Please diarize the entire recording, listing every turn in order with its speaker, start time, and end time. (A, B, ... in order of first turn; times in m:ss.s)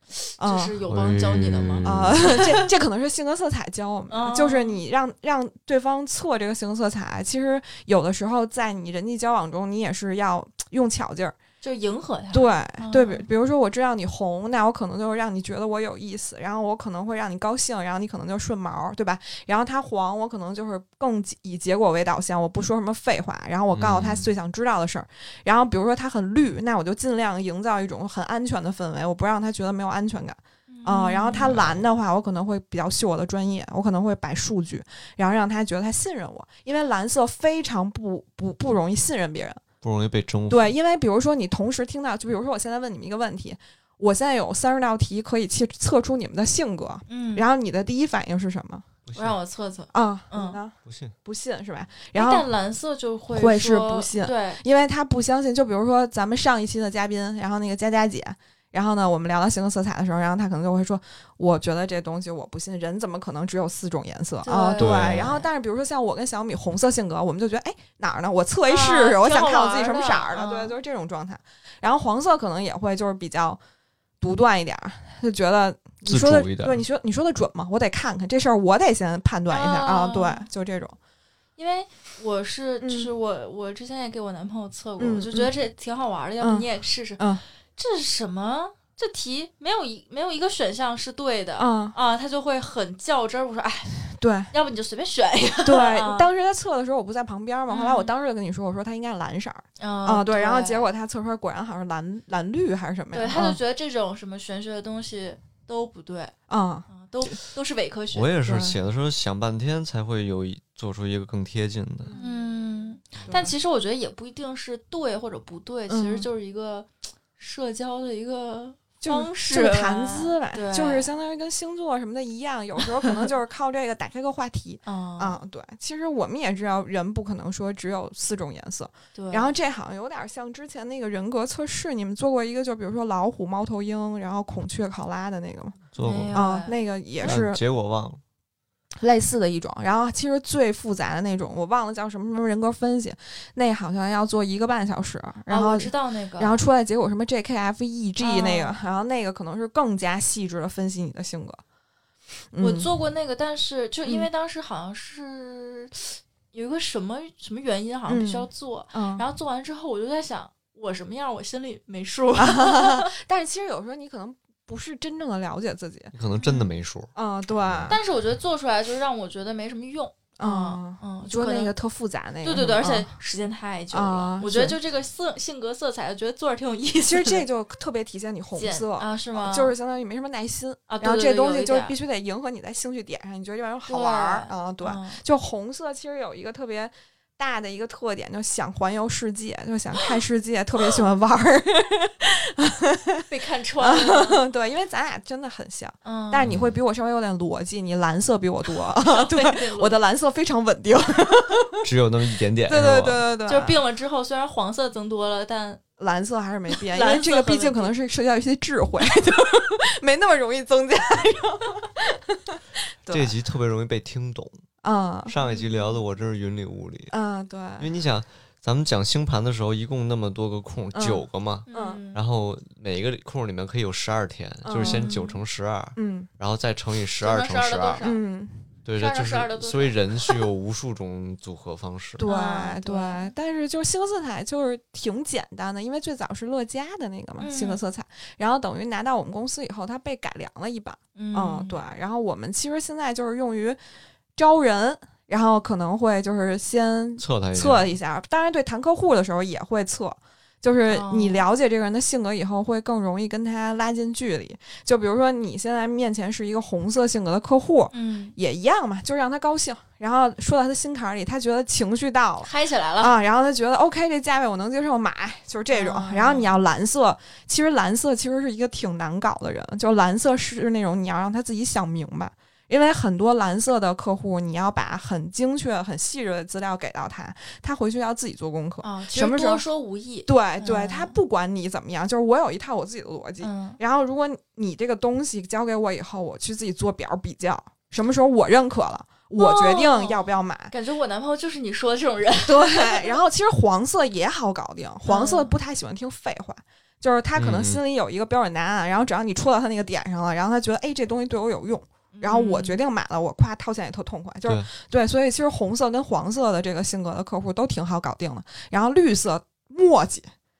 0:00.2-0:02.7 A
0:00.4-0:00.8 B
0:00.9-0:02.6 C
0:01.8-0:11.3 B
0:04.1-0:04.8 A
0:11.6-0:13.2 A
0:12.3-0:39.6 B
0:23.7-0:24.3 C
0:30.7-0:31.6 A
0:31.4-0:31.9 C
0:39.8-0:40.8 C
0:40.5-0:48.8 B
0:47.1-0:47.4 A
0:49.1-0:49.4 C
0:49.1-0:50.6 A
0:49.9-0:52.5 B
0:50.8-0:51.1 C
0:52.1-0:54.6 A
0:53.3-1:13.6 B
1:04.4-1:05.4 A
1:04.8-1:05.4 C
1:08.7-1:10.7 A
1:14.2-1:21.0 B
1:16.0-1:16.8 C
1:19.5-1:20.5 A
1:21.6-1:27.2 A
1:22.8-1:23.1 B
1:25.0-1:25.5 B
1:26.4-1:26.7 B
1:27.2-1:27.4 B
1:27.7-1:36.3 A
1:31.6-1:32.0 B
1:34.2-1:34.5 B
1:35.6-1:43.6 B
1:37.7-1:38.1 A
1:39.8-1:40.9 A
1:43.1-1:46.3 A
1:46.5-1:46.9 B
1:46.9-1:48.8 A
1:48.1-1:52.1 C
1:52.0-1:52.4 B
1:52.2-2:01.1 A
1:53.2-1:53.5 B
1:55.9-1:56.3 B
1:59.0-2:15.8 B
2:04.8-2:05.4 A
2:09.1-2:09.5 A
2:15.9-2:16.4 C
2:16.0-2:17.4 A
2:16.3-2:17.6 B
2:17.2-2:18.2 C
2:19.0-2:31.6 B
2:25.5-2:26.6 A
2:28.2-2:28.8 A
2:32.5-2:32.9 B
2:32.6-2:43.1 A
2:38.1-2:39.2 B
2:42.4-2:46.1 B
2:46.1-2:47.1 C
2:46.4-2:46.7 A
2:47.1-2:48.0 B
2:47.6-2:48.0 C
2:47.9-2:51.7 A
2:50.4-2:53.1 B
2:52.4-2:57.4 A
2:53.9-2:54.8 B
2:57.0-3:13.2 B
2:58.6-2:59.7 A
3:00.9-3:01.9 A
3:03.9-3:05.2 A
3:13.3-3:14.4 A
3:13.8-3:21.8 B
3:16.0-3:16.5 A
3:16.4-3:16.8 C
3:19.1-3:19.9 A
3:21.8-3:23.2 C
3:22.7-3:23.8 B
3:23.5-3:25.8 A
3:26.0-3:33.3 B
3:26.9-3:27.9 A
3:33.1-3:34.6 C
3:34.8-3:35.4 B
3:35.3-3:37.1 C
3:35.5-3:35.8 A
3:37.1-3:37.9 B
3:37.8-3:48.0 C
3:40.9-3:42.0 B
3:41.7-3:42.2 A
3:44.6-3:45.2 B
3:44.8-3:45.4 A
3:46.0-3:46.3 B
3:47.2-3:48.2 A
3:48.0-3:48.6 B
3:48.8-3:52.2 C
3:49.0-3:50.4 A
3:52.2-4:03.8 B
3:52.2-3:53.3 A
3:57.4-3:57.8 A
4:01.2-4:01.8 A
4:04.4-4:39.6 B
4:07.2-4:07.9 C
4:10.9-4:11.4 A
4:17.9-4:18.3 A
4:22.4-4:23.1 A
4:25.7-4:26.5 A
4:38.8-4:41.2 A
4:40.2-4:50.7 B
4:43.4-4:43.8 A
4:49.4-4:50.2 A
4:50.7-4:53.2 A
4:52.5-5:10.3 B
4:55.0-4:55.5 A
4:57.3-4:57.8 C
5:02.1-5:02.8 A